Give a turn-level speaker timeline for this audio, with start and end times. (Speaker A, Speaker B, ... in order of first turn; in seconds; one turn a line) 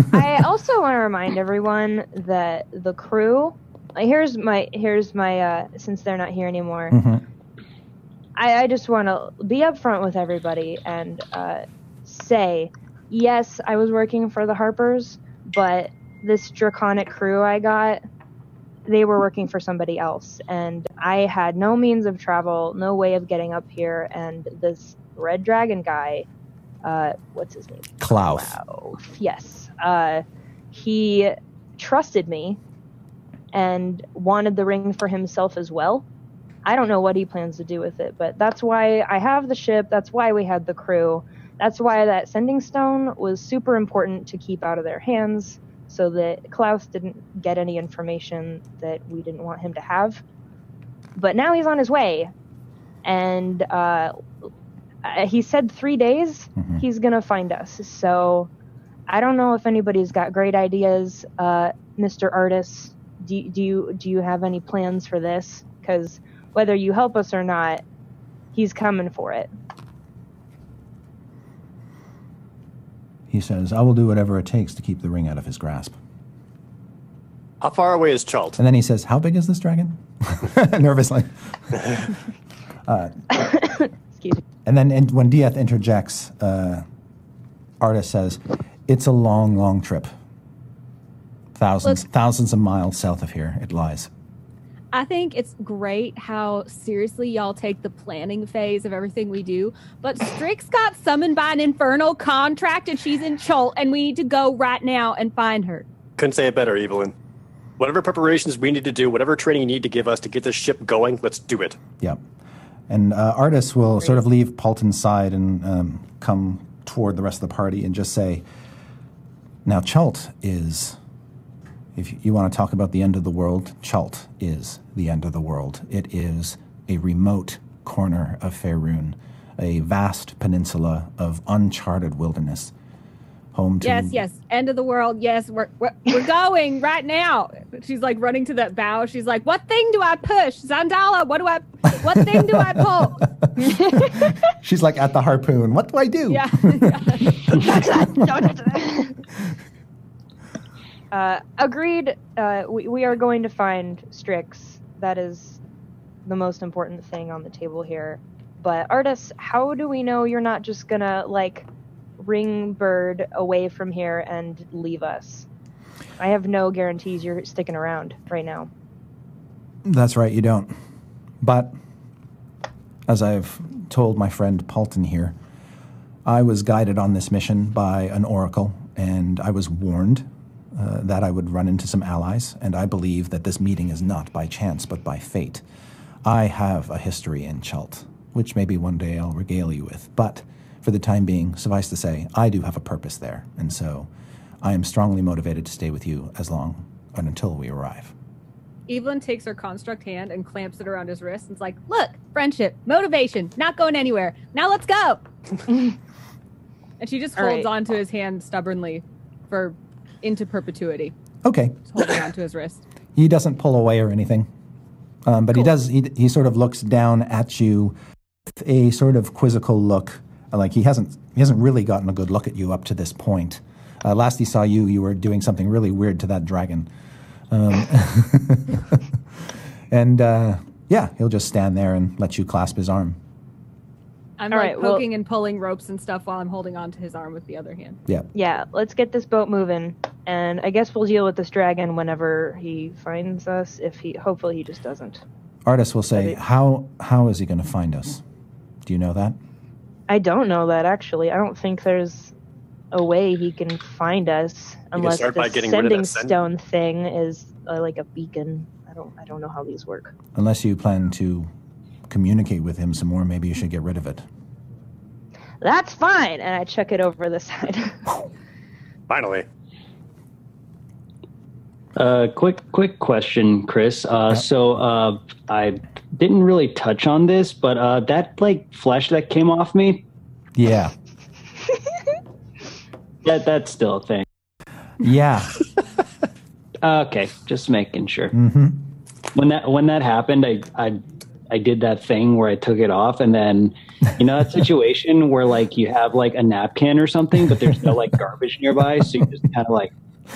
Speaker A: 0.1-7.0
Speaker B: 6.9-7.2
Speaker A: 8.4-18.0
Speaker A: 18.9-26.3
Speaker A: 26.8-32.6
Speaker B: 28.0-28.6
Speaker A: 33.5-36.0
Speaker A: 36.6-50.2
Speaker A: 51.2-52.3
Speaker A: 53.0-54.1
Speaker A: 55.0-58.5
Speaker B: 56.6-56.8
Speaker A: 59.1-67.8
Speaker A: 68.5-69.5
Speaker B: 73.3-76.0
Speaker C: 77.6-78.6
Speaker B: 78.6-82.1
Speaker B: 82.9-83.2
Speaker A: 83.4-84.4
Speaker B: 84.7-86.8
Speaker B: 87.8-90.1
Speaker B: 91.5-94.1
Speaker D: 94.9-105.9
Speaker C: 106.2-107.1
Speaker C: 107.8-111.8
Speaker B: 112.9-118.4
Speaker B: 119.7-121.0
Speaker B: 122.0-132.7
Speaker B: 133.5-134.2
Speaker D: 133.8-143.3
Speaker B: 142.0-143.5
Speaker B: 144.2-147.6
Speaker D: 146.3-147.4
Speaker A: 147.5-149.2
Speaker A: 151.1-155.6
Speaker A: 156.3-161.7
Speaker A: 162.2-165.5
Speaker A: 166.2-168.7
Speaker B: 169.8-170.7
Speaker B: 171.4-171.7
Speaker B: 173.1-175.4
Speaker B: 176.2-185.6
Speaker B: 186.2-194.1
Speaker B: 194.6-198.1
Speaker D: 198.9-205.2
Speaker D: 207.0-211.1
Speaker A: 207.4-207.7
Speaker B: 211.4-212.1
Speaker D: 211.9-212.8
Speaker B: 213.2-214.5
Speaker B: 215.3-218.0
Speaker B: 218.5-226.9
Speaker B: 227.5-229.0
Speaker B: 229.9-233.2
Speaker D: 234.4-238.0
Speaker A: 234.5-235.1
Speaker A: 238.3-245.2
Speaker B: 245.7-248.2
Speaker B: 248.8-249.4
Speaker A: 250.1-252.3
Speaker A: 252.9-260.1
Speaker C: 255.0-256.3
Speaker B: 260.4-261.5
Speaker B: 262.1-264.2
Speaker A: 265.6-268.1
Speaker C: 269.1-269.4
Speaker E: 272.0-280.0
Speaker B: 280.6-280.9
Speaker E: 283.2-284.2
Speaker B: 285.0-285.6
Speaker E: 286.8-288.4
Speaker B: 288.3-288.9
Speaker E: 289.3-299.9